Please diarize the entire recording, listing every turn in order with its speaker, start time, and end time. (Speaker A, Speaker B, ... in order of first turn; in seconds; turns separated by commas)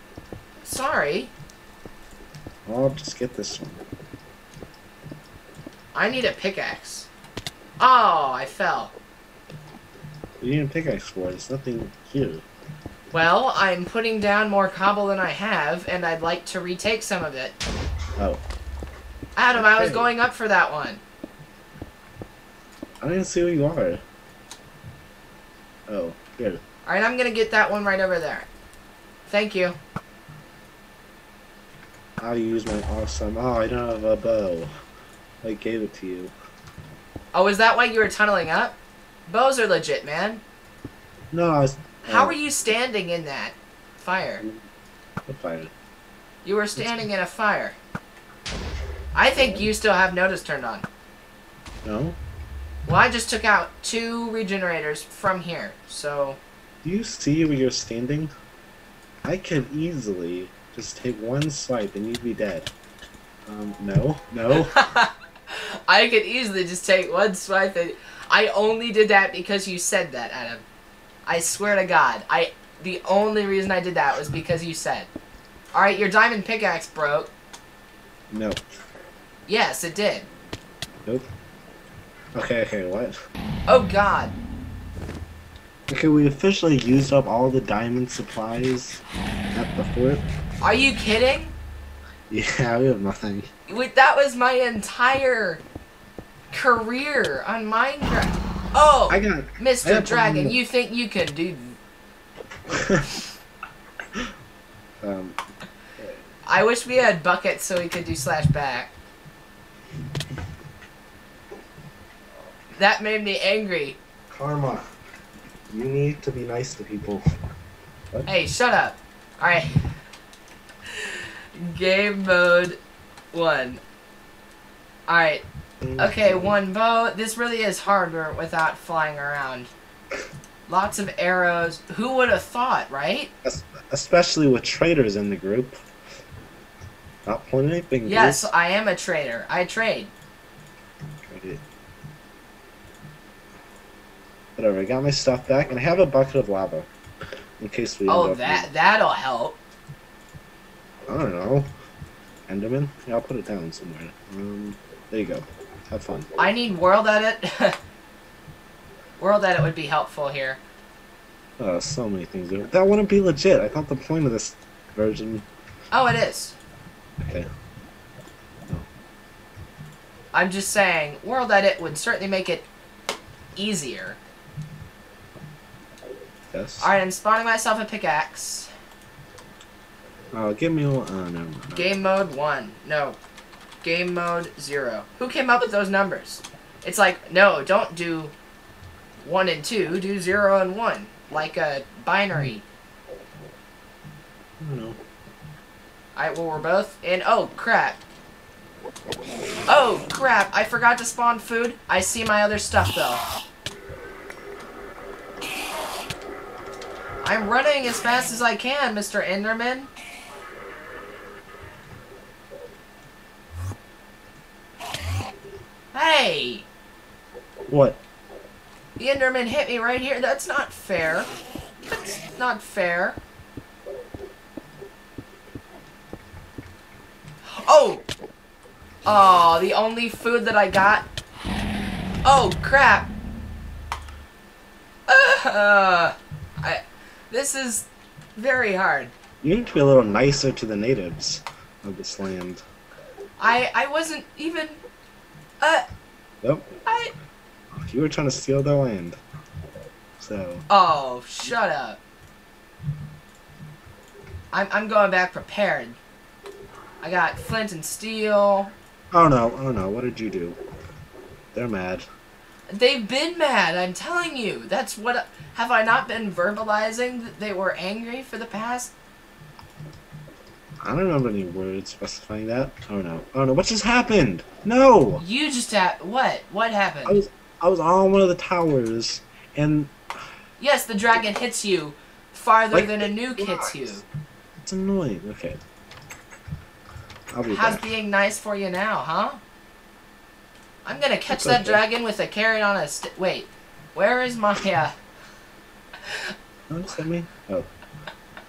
Speaker A: 0.6-1.3, Speaker B: 2.7-3.8, Speaker A: 5.9-7.1, Speaker A: 7.8-8.9, Speaker B: 10.4-12.4, Speaker A: 13.1-17.6, Speaker B: 18.2-18.4, Speaker A: 19.4-21.0, Speaker B: 19.5-20.1, Speaker B: 23.0-24.0, Speaker B: 25.9-26.6, Speaker A: 26.9-28.5, Speaker A: 29.3-29.8, Speaker B: 32.2-34.7, Speaker B: 35.4-36.3, Speaker A: 37.3-40.4, Speaker B: 41.3-42.4, Speaker A: 42.0-44.4, Speaker B: 45.3-45.7, Speaker A: 46.4-47.8, Speaker A: 49.1-50.9, Speaker B: 49.3-49.7, Speaker B: 51.8-52.2, Speaker A: 52.9-56.4, Speaker B: 56.8-58.3, Speaker B: 59.2-62.7, Speaker B: 63.5-64.8, Speaker A: 64.6-70.7, Speaker A: 71.3-75.1, Speaker A: 75.7-77.3, Speaker B: 78.3-78.6, Speaker A: 79.5-80.3, Speaker B: 82.3-83.2, Speaker A: 83.7-84.4, Speaker B: 85.9-90.3, Speaker A: 90.6-91.5, Speaker B: 92.3-93.5, Speaker A: 93.7-95.6, Speaker A: 96.5-101.8, Speaker B: 99.1-100.6, Speaker B: 102.7-103.0, Speaker B: 105.0-105.4, Speaker A: 106.5-108.9, Speaker A: 112.8-114.0, Speaker B: 114.3-114.9, Speaker B: 115.7-117.2, Speaker A: 118.3-119.7, Speaker A: 120.9-122.8, Speaker A: 123.3-123.8, Speaker A: 125.1-125.4, Speaker B: 125.8-126.6, Speaker A: 126.0-129.7, Speaker A: 130.7-133.3, Speaker B: 133.4-135.8, Speaker B: 137.3-138.5, Speaker A: 138.0-140.1, Speaker B: 141.3-141.6, Speaker B: 144.6-146.9, Speaker B: 147.6-148.7, Speaker A: 148.1-149.6, Speaker B: 151.1-151.7, Speaker B: 152.5-156.3, Speaker A: 156.4-157.8, Speaker A: 159.2-160.6, Speaker B: 161.6-165.5, Speaker A: 165.9-166.6, Speaker B: 167.2-167.5, Speaker A: 170.3-172.7, Speaker A: 173.6-174.2, Speaker B: 176.5-176.9, Speaker A: 176.8-178.7, Speaker B: 180.3-181.9, Speaker A: 181.7-183.2, Speaker A: 183.8-188.3, Speaker A: 189.2-192.7, Speaker B: 194.6-195.0, Speaker A: 196.2-198.0, Speaker A: 199.7-203.2, Speaker A: 207.2-209.9, Speaker A: 215.9-216.7, Speaker B: 217.7-218.0, Speaker A: 219.0-221.3, Speaker A: 221.8-223.2, Speaker A: 227.5-228.1, Speaker A: 229.1-231.1, Speaker A: 232.2-233.1, Speaker A: 235.1-239.1, Speaker B: 239.4-242.6, Speaker A: 243.4-244.8, Speaker B: 246.4-246.7, Speaker A: 246.9-247.1, Speaker B: 247.8-249.2, Speaker B: 250.2-250.6, Speaker A: 250.7-252.0, Speaker A: 254.5-256.0, Speaker A: 257.0-258.7, Speaker B: 259.1-260.6, Speaker B: 261.5-262.1, Speaker A: 262.7-268.9, Speaker B: 270.8-275.2, Speaker A: 275.2-277.2, Speaker B: 277.1-280.0, Speaker A: 280.6-284.1, Speaker B: 282.7-284.0, Speaker B: 284.6-285.6, Speaker B: 287.3-287.9, Speaker A: 287.5-289.4, Speaker A: 290.9-294.9, Speaker B: 291.3-291.8, Speaker B: 296.7-297.7